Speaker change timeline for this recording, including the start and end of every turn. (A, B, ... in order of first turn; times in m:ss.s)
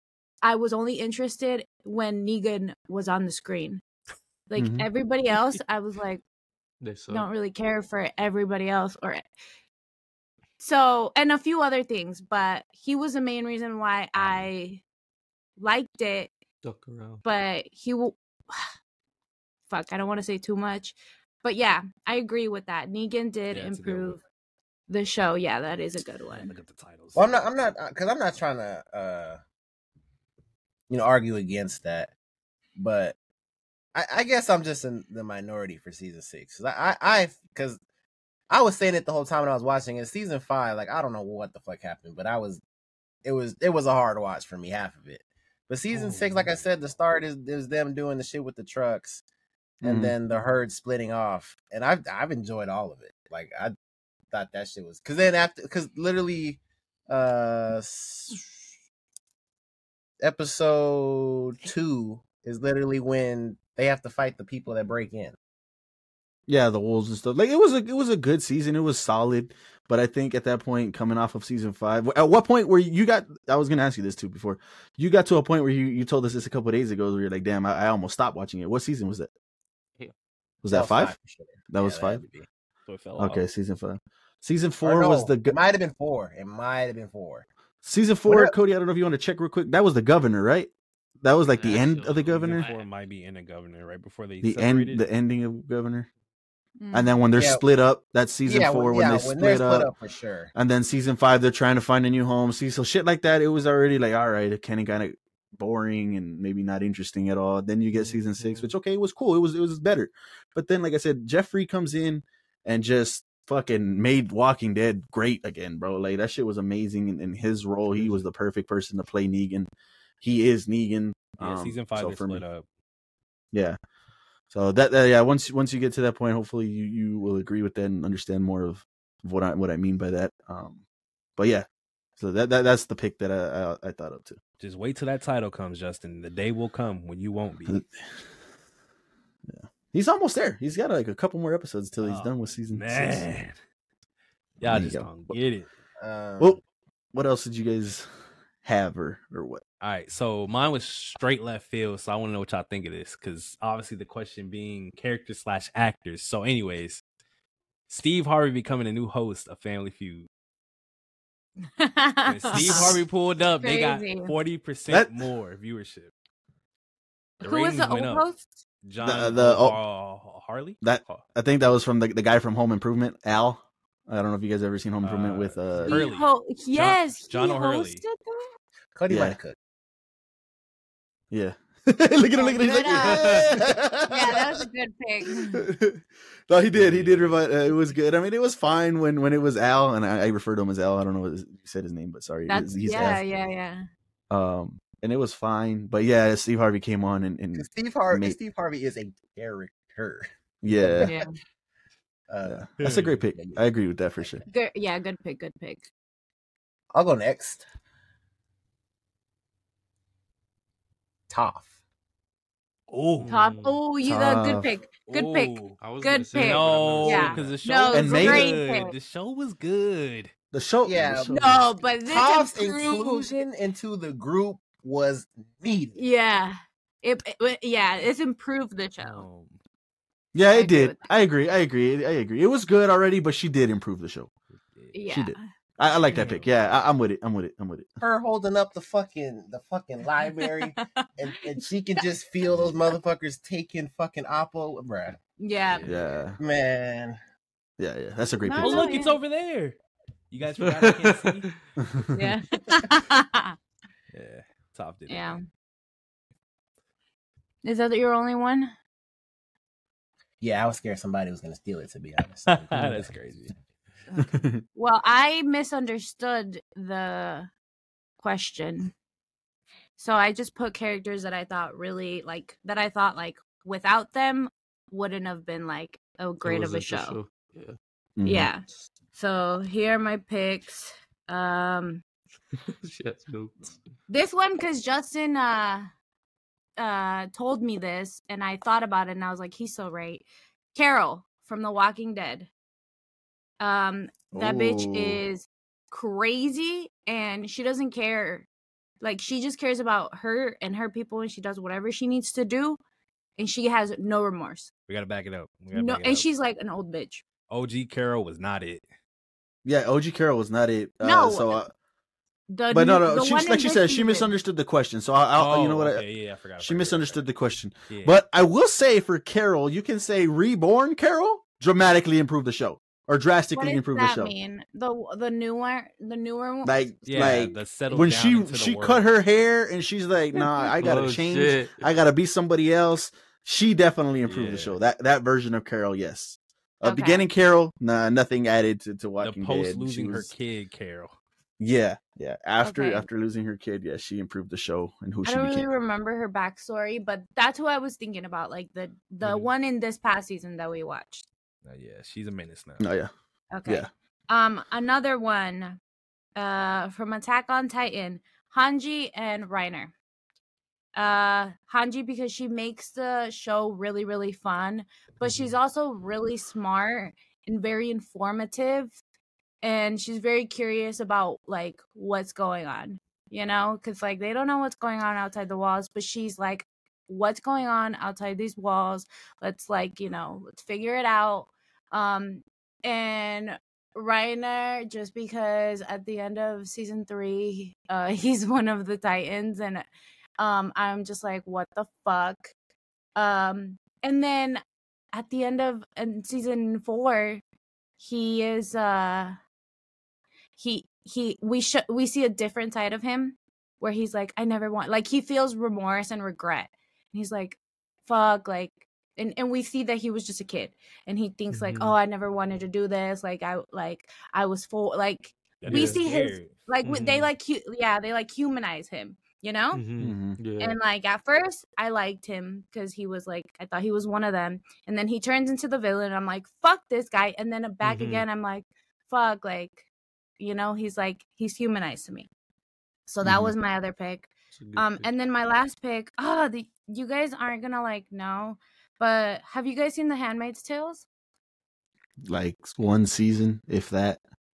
0:00.4-0:03.8 A
0:04.5-0:06.2 A
0:04.6-0:04.9 B
0:06.8-0:07.3 C
0:07.1-0:09.2 A
0:10.6-0:14.8 A
0:14.2-0:14.5 D
0:15.6-0:16.3 A
0:16.6-0:17.2 C
0:17.2-0:18.6 A
0:19.7-0:24.2 A
0:23.5-0:24.2 D
0:24.9-0:26.5 A
0:26.3-0:27.5 D
0:27.1-0:29.4 E
0:30.9-0:32.1 E
0:32.8-0:33.2 E
0:33.9-0:37.8 E
0:38.5-0:42.6 E
0:43.2-0:49.2 E
0:49.8-0:50.1 B
0:49.8-0:53.7 E
0:54.3-0:58.6 E
1:00.2-1:05.4 E
1:06.5-1:19.3 B
1:20.6-1:21.1 B
1:20.7-1:22.4 E
1:21.7-1:22.2 B
1:22.9-1:23.4 D
1:23.2-1:25.6 B
1:24.8-1:27.4 E
1:27.8-1:30.7 B
1:28.2-1:28.5 E
1:31.2-1:32.7 B
1:31.5-1:32.9 C
1:32.2-1:35.0 D
1:34.4-1:36.1 B
1:36.8-1:37.2 A
1:36.9-1:39.9 B
1:37.4-1:37.6 E
1:38.4-1:40.5 E
1:40.5-1:59.7 B
1:57.9-1:58.2 D
2:00.2-2:02.4 B
2:01.4-2:02.6 D
2:03.5-2:03.8 B
2:04.5-2:10.8 B
2:11.4-2:11.6 B
2:12.2-2:14.4 B
2:14.6-2:17.8 D
2:19.5-2:23.3 B
2:22.0-2:23.6 D
2:24.6-2:25.7 D
2:24.6-2:25.3 B
2:26.0-2:26.6 E
2:27.1-2:28.1 B
2:28.6-2:29.6 B
2:29.8-2:37.0 D
2:37.9-2:40.3 D
2:41.8-2:43.0 A
2:42.2-2:46.1 D
2:43.6-2:44.3 A
2:44.9-2:45.2 B
2:47.4-2:48.3 D
2:47.4-2:48.5 A
2:48.8-2:51.2 D
2:49.0-2:49.8 B
2:50.8-2:56.1 B
2:55.0-2:58.0 D
2:55.9-2:58.5 A
2:58.9-2:59.6 E
2:59.1-2:59.4 B
3:01.3-3:04.6 B
3:02.3-3:05.6 A
3:05.3-3:13.2 B
3:06.7-3:07.4 D
3:12.5-3:13.8 A
3:14.3-3:18.4 B
3:17.5-3:21.3 E
3:20.6-3:21.1 B
3:21.0-3:21.3 A
3:22.3-3:22.6 E
3:22.4-3:24.4 B
3:22.8-3:23.2 D
3:23.4-3:23.6 E
3:24.2-3:24.4 E
3:24.5-3:25.9 A
3:26.9-3:27.6 E
3:31.3-3:31.7 E
3:32.9-3:33.3 D
3:33.2-3:33.8 C
3:33.3-3:38.9 A
3:34.0-3:34.7 B
3:35.1-3:40.3 D
3:35.8-3:37.6 C
3:37.9-3:38.5 B
3:40.5-3:41.6 B
3:40.8-3:41.3 E
3:41.3-3:43.4 A
3:42.0-3:46.0 E
3:46.0-3:49.2 A
3:49.0-3:49.6 D
3:50.3-3:54.3 B
3:50.5-3:51.1 A
3:54.6-3:54.9 D
3:54.9-3:55.4 A
3:55.1-3:57.9 B
3:56.1-3:56.5 D
3:58.0-4:05.2 E
4:00.4-4:00.9 A
4:05.4-4:06.0 A
4:05.8-4:06.4 B
4:06.4-4:07.2 E
4:07.8-4:09.0 B
4:08.4-4:09.2 A
4:08.6-4:09.8 D
4:10.3-4:11.5 D
4:10.6-4:11.5 C
4:11.8-4:12.2 B
4:12.1-4:13.6 A
4:14.1-4:15.4 D
4:15.1-4:15.4 A
4:17.6-4:18.7 A
4:20.4-4:23.1 E
4:22.5-4:23.5 D
4:24.1-4:27.5 A
4:24.2-4:24.6 B
4:28.2-4:28.9 A
4:30.0-4:37.2 A
4:36.4-4:37.8 C
4:38.2-4:38.5 B
4:38.2-4:42.0 A
4:42.7-4:43.8 C
4:44.1-4:45.9 A
4:46.8-4:52.5 A
4:53.6-4:58.5 A
4:54.3-4:55.2 B
4:59.0-5:02.8 A
5:03.4-5:04.7 A
5:04.9-5:06.2 D
5:05.7-5:07.2 A
5:07.5-5:08.8 D
5:09.6-5:11.7 B
5:11.0-5:11.6 A
5:12.5-5:14.3 A
5:12.7-5:16.0 B
5:15.3-5:17.2 D
5:16.6-5:24.3 B
5:17.9-5:18.2 D
5:23.5-5:27.6 A
5:26.6-5:40.3 B
5:27.0-5:29.0 D
5:30.4-5:30.7 A
5:30.8-5:31.9 C
5:34.2-5:34.8 D
5:36.8-5:37.2 A
5:39.2-5:41.1 D
5:41.6-5:45.7 B
5:42.6-5:43.0 A
5:45.2-5:51.2 A
5:49.2-5:49.5 D
5:51.6-5:52.8 D
5:52.8-5:53.1 B
5:53.5-5:55.8 A
5:56.4-5:59.9 A
6:00.9-6:08.9 A
6:09.6-6:29.8 A
6:30.4-6:32.5 A
6:33.2-6:34.6 A
6:35.1-6:37.4 A
6:38.0-6:39.4 A
6:40.6-6:59.8 A
6:51.5-6:52.0 C
6:55.6-6:56.9 D
6:55.7-6:56.0 C
6:56.8-6:57.3 C
6:59.7-7:00.8 C
7:00.0-7:00.4 B
7:00.6-7:09.8 A
7:07.8-7:08.2 C
7:10.4-7:12.3 A
7:13.1-7:21.0 A
7:13.2-7:13.5 B
7:14.5-7:15.1 C
7:22.2-7:24.2 B